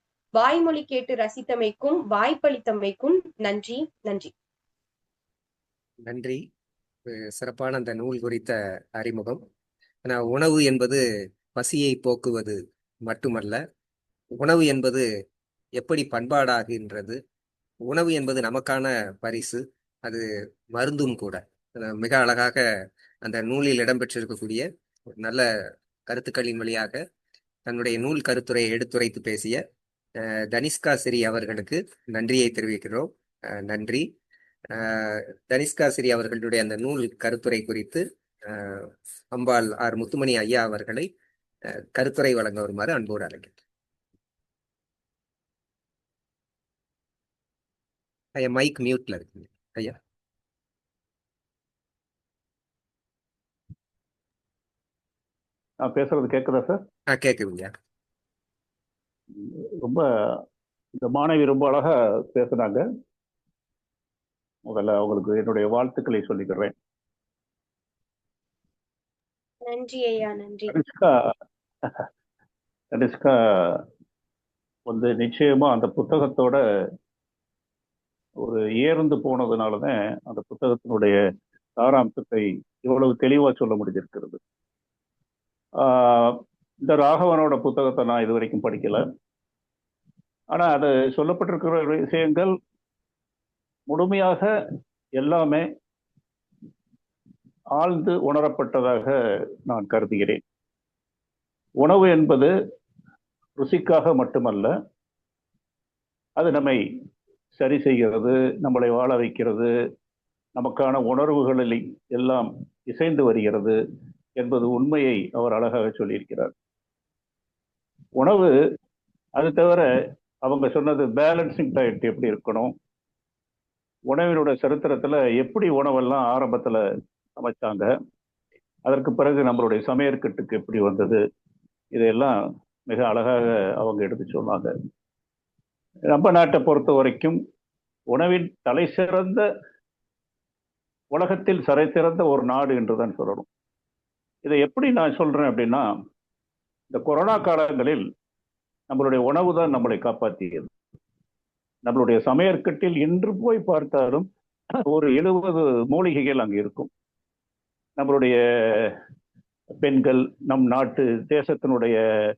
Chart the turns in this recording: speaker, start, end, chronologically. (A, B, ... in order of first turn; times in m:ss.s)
0:00.4-0:04.3 A
0:06.0-0:06.4 B
0:07.1-0:09.4 B
0:10.0-0:11.0 B
0:11.5-0:13.6 B
0:14.4-0:15.0 B
0:15.8-0:17.2 B
0:17.9-0:20.2 B
0:20.8-0:22.6 B
0:23.2-0:24.6 B
0:25.2-0:25.5 B
0:26.1-0:27.0 B
0:27.6-0:29.6 B
0:30.2-0:34.1 B
0:34.7-0:41.1 B
0:41.7-0:43.6 B
0:48.4-0:50.0 B
0:55.8-0:56.8 C
0:57.1-0:57.7 B
0:59.3-1:00.4 C
1:01.0-1:02.8 C
1:04.6-1:06.7 C
1:09.6-1:10.8 A
1:10.7-1:12.1 C
1:12.9-1:13.8 C
1:14.9-1:16.6 C
1:18.4-1:21.2 C
1:21.8-1:24.4 C
1:25.8-1:29.0 C
1:30.5-1:32.5 C
1:33.9-1:34.5 C
1:35.2-1:35.7 C
1:37.8-1:39.2 C
1:39.7-1:40.4 C
1:41.8-1:42.5 C
1:43.6-1:44.7 C
1:46.4-1:46.8 C
1:47.5-1:49.7 C
1:50.6-1:53.8 C
1:54.4-1:56.5 C
1:58.2-1:58.5 C
1:59.4-1:59.9 C
2:00.4-2:02.7 C
2:04.1-2:06.8 C
2:07.4-2:07.9 C
2:08.8-2:11.2 C
2:11.9-2:12.4 C
2:12.9-2:14.7 C
2:16.1-2:17.4 C
2:18.1-2:19.4 C
2:21.1-2:23.4 C
2:24.4-2:25.9 C
2:26.9-2:28.0 C
2:28.9-2:30.7 C
2:31.8-2:34.3 C
2:34.8-2:36.9 C
2:38.0-2:39.0 C
2:39.8-2:42.0 C